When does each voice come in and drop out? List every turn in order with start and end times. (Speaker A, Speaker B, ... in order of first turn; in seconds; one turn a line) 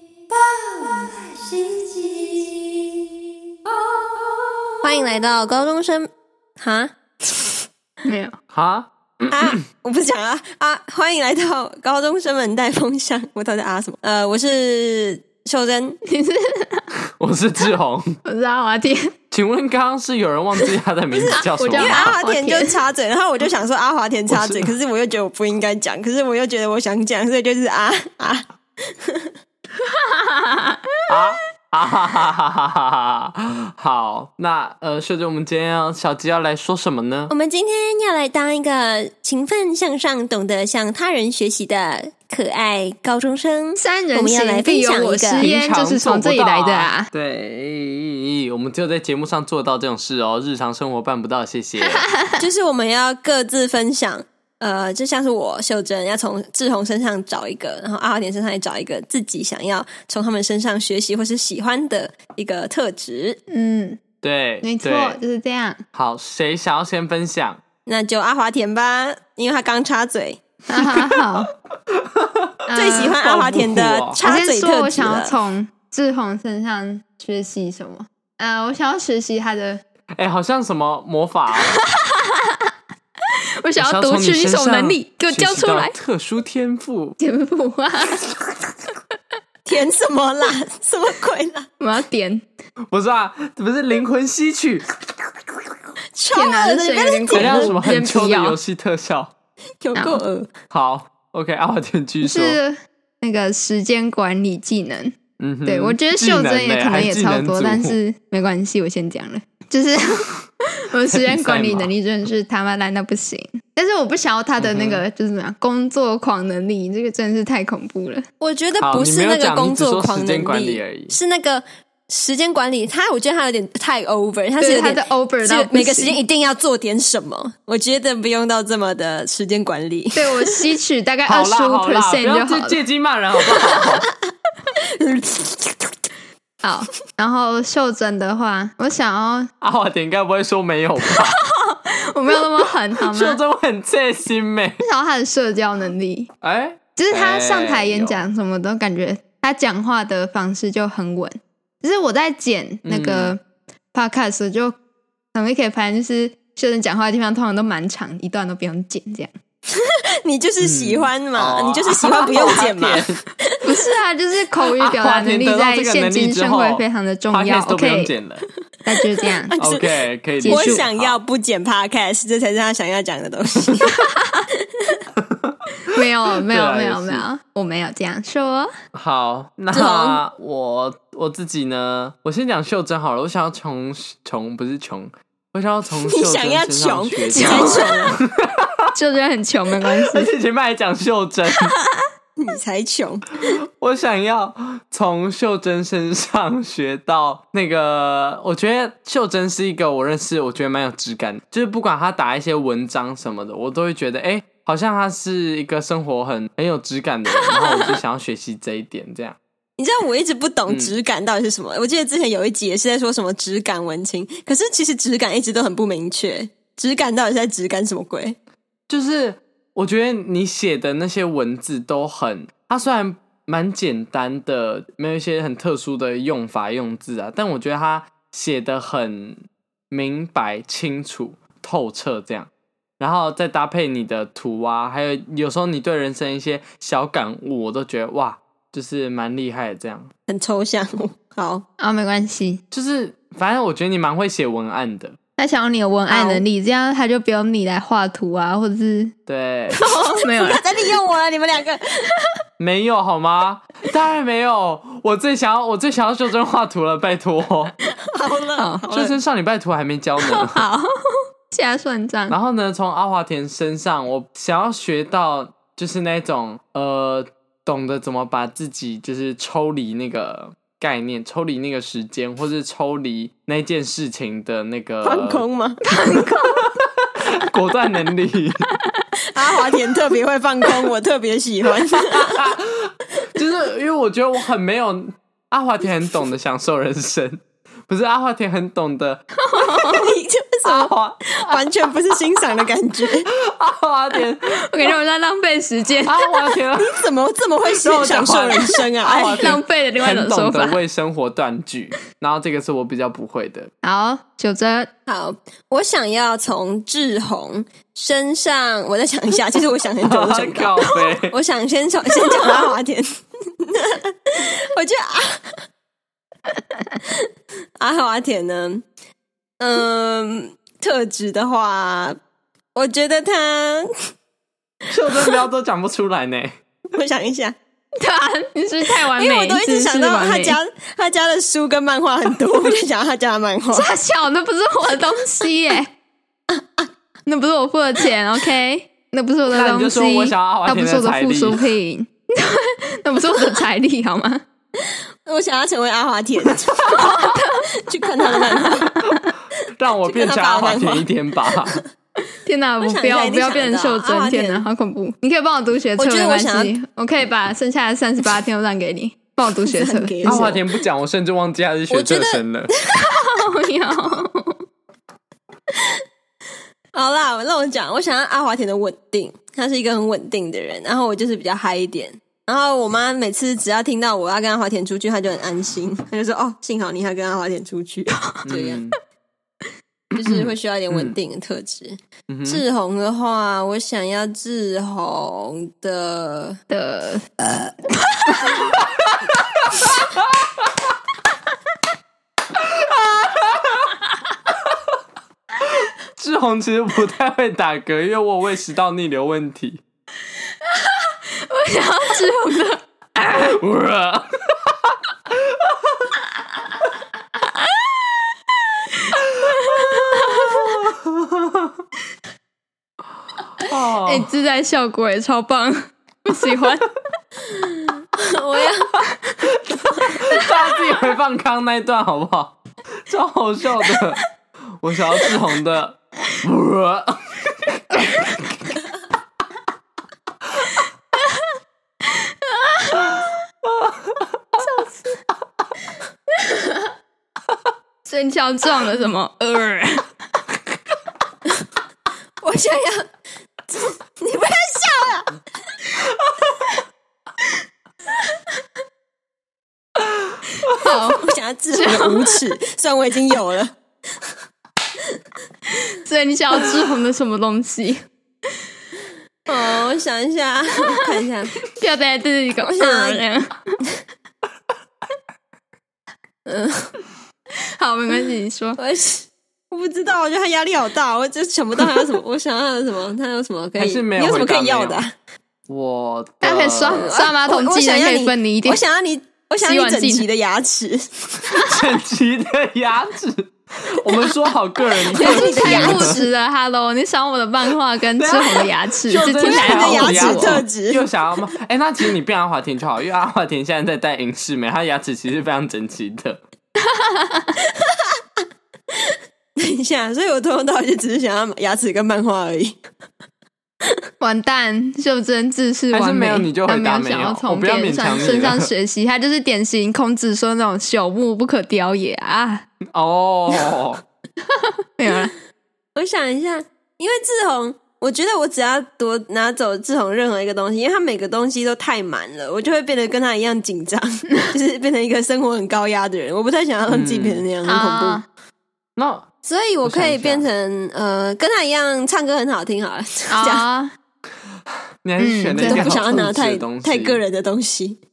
Speaker A: 0.3-2.9
Speaker A: 4.8-6.1
Speaker A: 6.6-7.6
Speaker B: 8.0-8.3
Speaker C: 8.5-9.6
Speaker A: 9.3-16.0
Speaker B: 16.0-16.8
Speaker C: 17.2-18.1
Speaker B: 18.2-19.1
Speaker C: 19.3-22.2
Speaker A: 21.1-28.4
Speaker B: 21.4-22.8
Speaker C: 24.3-24.7
Speaker A: 29.0-29.3
Speaker B: 29.8-31.1
Speaker C: 31.1-37.3
Speaker A: 37.3-45.5
Speaker B: 43.8-47.1
Speaker C: 45.4-52.0
Speaker B: 51.8-52.3
Speaker A: 52.4-63.4
Speaker B: 63.5-64.0
Speaker C: 64.2-65.2
Speaker B: 64.6-65.8
Speaker C: 65.9-67.6
Speaker A: 67.8-70.4
Speaker B: 70.7-71.5
Speaker C: 72.1-74.2
Speaker B: 72.7-73.2
Speaker A: 72.7-75.3
Speaker B: 74.2-79.8
Speaker C: 80.2-81.8
Speaker B: 81.7-82.6
Speaker B: 83.6-85.9
Speaker C: 83.8-87.2
Speaker B: 87.2-88.2
Speaker A: 89.7-91.7
Speaker B: 91.8-92.5
Speaker C: 92.9-94.8
Speaker A: 96.1-97.7
Speaker B: 96.3-98.6
Speaker C: 97.3-99.3
Speaker A: 99.8-100.5
Speaker B: 99.9-100.2
Speaker C: 100.7-102.6
Speaker B: 102.2-110.3
Speaker C: 105.4-108.0
Speaker B: 110.8-118.2
Speaker C: 111.0-111.9
Speaker C: 114.6-115.0
Speaker A: 118.4-130.7
Speaker C: 118.8-121.2
Speaker B: 124.6-126.2
Speaker B: 130.1-132.8
Speaker C: 131.2-134.1
Speaker A: 133.5-133.9
Speaker A: 135.0-135.9
Speaker B: 136.6-139.5
Speaker C: 139.6-141.3
Speaker B: 141.1-143.4
Speaker C: 143.1-144.8
Speaker B: 144.8-146.3
Speaker C: 146.4-148.2
Speaker B: 146.9-153.4
Speaker C: 152.8-153.3
Speaker B: 153.9-154.8
Speaker B: 155.3-159.3
Speaker A: 159.7-163.1
Speaker C: 160.6-163.2
Speaker B: 163.6-168.1
Speaker C: 164.6-168.4
Speaker B: 168.8-169.5
Speaker A: 169.4-174.0
Speaker C: 169.6-171.2
Speaker B: 170.4-170.8
Speaker C: 175.2-175.9
Speaker B: 175.9-178.7
Speaker C: 176.5-177.2
Speaker C: 178.9-188.8
Speaker A: 179.7-180.2
Speaker A: 186.0-188.2
Speaker B: 187.3-187.8
Speaker B: 188.9-190.3
Speaker C: 189.8-191.7
Speaker A: 192.4-193.5
Speaker C: 193.8-209.4
Speaker A: 209.8-218.4
Speaker C: 210.7-210.9
Speaker C: 218.9-232.5
Speaker C: 233.0-240.1
Speaker A: 240.3-241.6
Speaker B: 241.8-242.6
Speaker C: 242.7-245.2
Speaker B: 245.4-249.1
Speaker A: 246.1-246.4
Speaker C: 249.3-249.8
Speaker A: 249.7-251.8
Speaker B: 250.2-250.6
Speaker C: 252.6-257.7
Speaker A: 258.1-259.2
Speaker B: 258.6-258.8
Speaker C: 258.9-260.6
Speaker B: 260.2-260.8
Speaker B: 261.5-262.4
Speaker C: 262.3-275.4
Speaker A: 275.0-275.8
Speaker B: 275.8-276.6
Speaker C: 276.1-276.7
Speaker C: 277.4-278.6
Speaker A: 279.3-282.5
Speaker C: 281.9-289.2
Speaker B: 289.4-290.1
Speaker A: 289.7-293.3
Speaker C: 290.6-291.7
Speaker C: 293.3-294.5
Speaker B: 294.6-296.5
Speaker C: 296.0-296.9
Speaker A: 296.8-299.6
Speaker C: 297.7-303.7
Speaker B: 299.1-300.8
Speaker B: 303.8-304.9
Speaker A: 305.1-313.1
Speaker C: 310.0-311.3
Speaker A: 313.6-315.6
Speaker A: 317.8-318.8
Speaker A: 319.6-322.1
Speaker A: 322.7-323.9
Speaker C: 324.9-326.5
Speaker A: 326.9-327.5
Speaker B: 328.0-330.6
Speaker A: 328.9-333.9
Speaker B: 333.7-335.9
Speaker B: 337.2-344.4
Speaker C: 339.5-341.6
Speaker A: 345.2-348.9
Speaker B: 346.9-347.6
Speaker B: 348.3-348.6
Speaker C: 349.2-351.8
Speaker A: 350.0-351.1
Speaker B: 352.4-360.5
Speaker A: 352.8-354.7
Speaker A: 356.0-356.8
Speaker A: 359.6-360.7
Speaker C: 360.2-362.7
Speaker A: 361.9-362.8
Speaker B: 362.9-364.6
Speaker A: 366.9-378.8
Speaker C: 378.4-378.9
Speaker A: 380.1-386.6
Speaker C: 380.2-381.1
Speaker C: 382.3-382.6
Speaker B: 386.7-388.5
Speaker C: 388.7-389.4
Speaker C: 390.1-390.7
Speaker C: 396.1-399.8
Speaker B: 400.6-402.8
Speaker C: 403.2-405.7
Speaker B: 407.4-408.1
Speaker B: 408.9-410.8
Speaker C: 410.3-411.7
Speaker C: 413.6-414.3
Speaker B: 413.9-416.9
Speaker A: 417.5-418.9
Speaker C: 419.5-424.2
Speaker C: 424.8-428.6
Speaker B: 430.7-431.4
Speaker B: 432.4-433.3
Speaker C: 433.6-434.2
Speaker B: 434.6-435.1
Speaker B: 436.4-436.9
Speaker B: 438.0-440.0
Speaker A: 442.4-443.1
Speaker A: 443.7-445.3
Speaker B: 450.6-451.2
Speaker A: 451.1-453.8
Speaker B: 451.7-452.4
Speaker B: 456.0-458.0
Speaker A: 459.5-461.6
Speaker B: 461.6-463.7
Speaker A: 462.6-463.2
Speaker A: 466.4-466.9
Speaker B: 467.8-468.8
Speaker A: 468.8-475.1
Speaker C: 473.8-475.0
Speaker C: 475.7-477.1
Speaker B: 476.4-478.8
Speaker A: 476.9-481.5
Speaker B: 479.6-480.2
Speaker C: 481.5-486.2
Speaker A: 485.1-486.3
Speaker B: 485.2-490.6
Speaker C: 488.1-496.4
Speaker A: 489.4-491.1
Speaker B: 496.9-497.5
Speaker A: 499.6-502.8
Speaker B: 504.2-512.6
Speaker C: 505.9-508.7
Speaker C: 512.9-514.0
Speaker B: 515.0-515.3
Speaker A: 516.0-528.2
Speaker C: 526.9-527.4
Speaker B: 527.6-528.2
Speaker C: 529.0-529.2
Speaker A: 529.4-533.6
Speaker C: 529.8-530.5
Speaker B: 533.3-533.9
Speaker C: 535.0-537.2
Speaker B: 535.2-535.9
Speaker A: 535.6-538.0